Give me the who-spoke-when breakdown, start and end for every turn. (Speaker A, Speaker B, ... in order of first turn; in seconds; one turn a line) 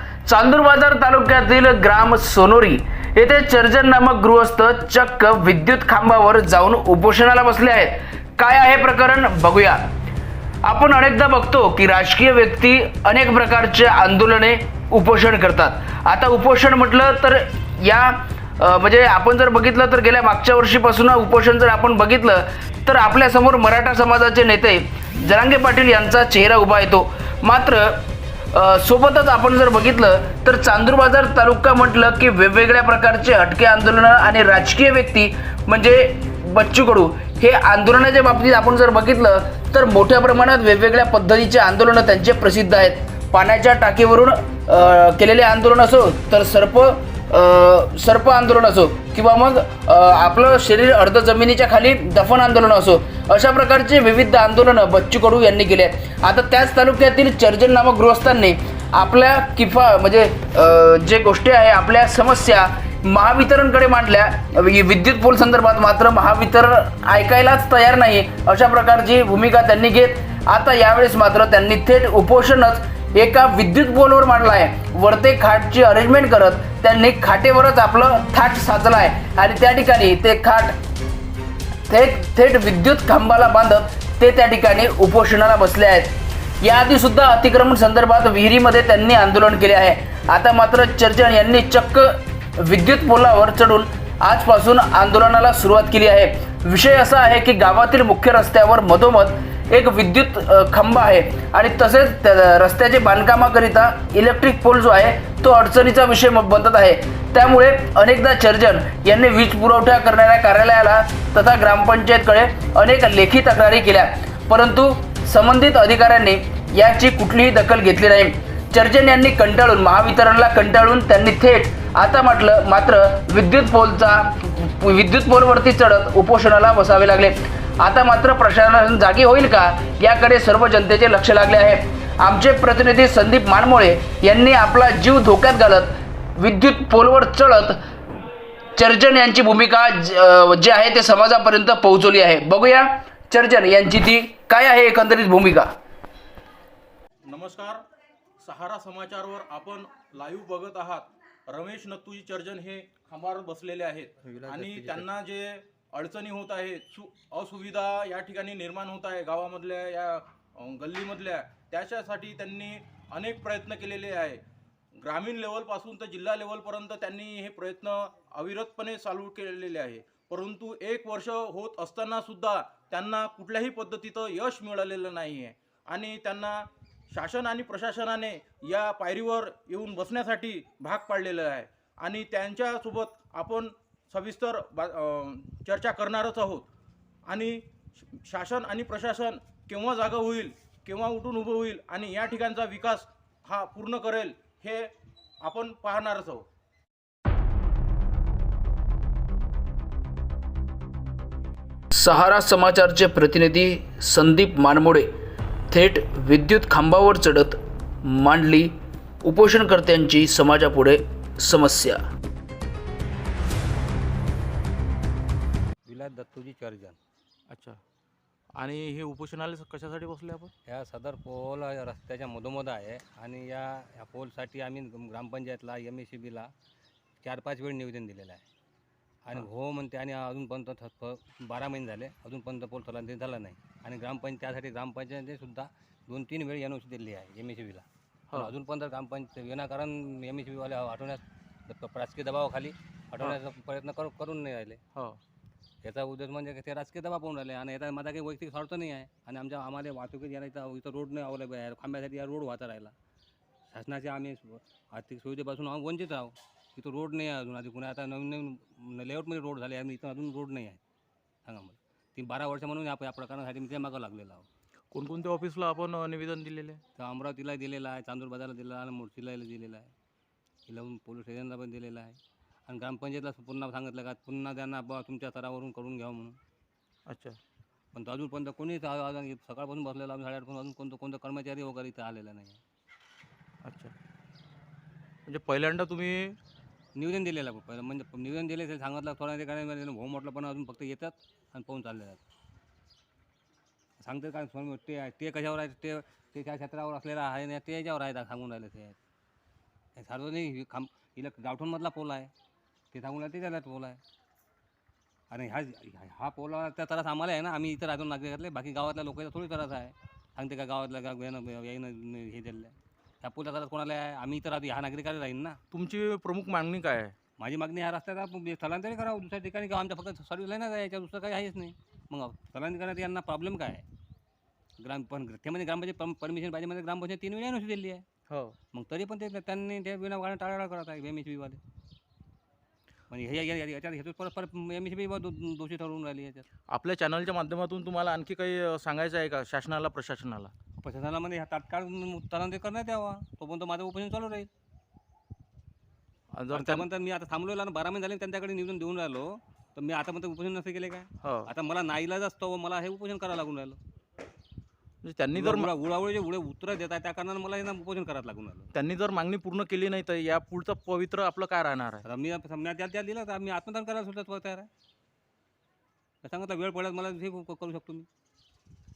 Speaker A: 0.3-9.8
Speaker A: 10.6-80.8
Speaker A: 81.9-137.8
Speaker A: 138.8-145.7
Speaker B: 147.2-147.8
Speaker B: 148.4-164.4
Speaker C: 154.2-155.1
Speaker B: 165.0-186.7
Speaker B: 187.3-196.4
Speaker A: 201.9-205.1
Speaker A: 205.7-212.0
Speaker C: 215.9-217.0
Speaker B: 217.5-217.8
Speaker B: 218.6-220.5
Speaker C: 220.7-226.5
Speaker C: 227.2-228.4
Speaker C: 229.2-244.8
Speaker C: 245.8-252.9
Speaker C: 253.7-260.8
Speaker C: 261.5-264.5
Speaker B: 264.9-266.8
Speaker C: 267.0-269.9
Speaker C: 270.7-276.4
Speaker B: 277.1-277.4
Speaker C: 277.9-282.6
Speaker B: 283.6-283.9
Speaker B: 285.3-286.4
Speaker C: 287.0-292.2
Speaker C: 294.0-299.0
Speaker C: 300.0-302.3
Speaker C: 302.9-304.0
Speaker C: 305.3-315.6
Speaker B: 315.7-317.1
Speaker C: 317.4-323.9
Speaker C: 324.8-328.1
Speaker B: 328.3-328.6
Speaker C: 328.7-331.6
Speaker C: 333.1-336.5
Speaker B: 336.7-340.5
Speaker C: 340.8-344.5
Speaker B: 346.3-346.9
Speaker C: 346.5-353.8
Speaker B: 351.2-351.5
Speaker B: 355.0-355.7
Speaker C: 355.4-358.7
Speaker B: 358.7-362.1
Speaker C: 362.1-364.7
Speaker C: 366.2-368.1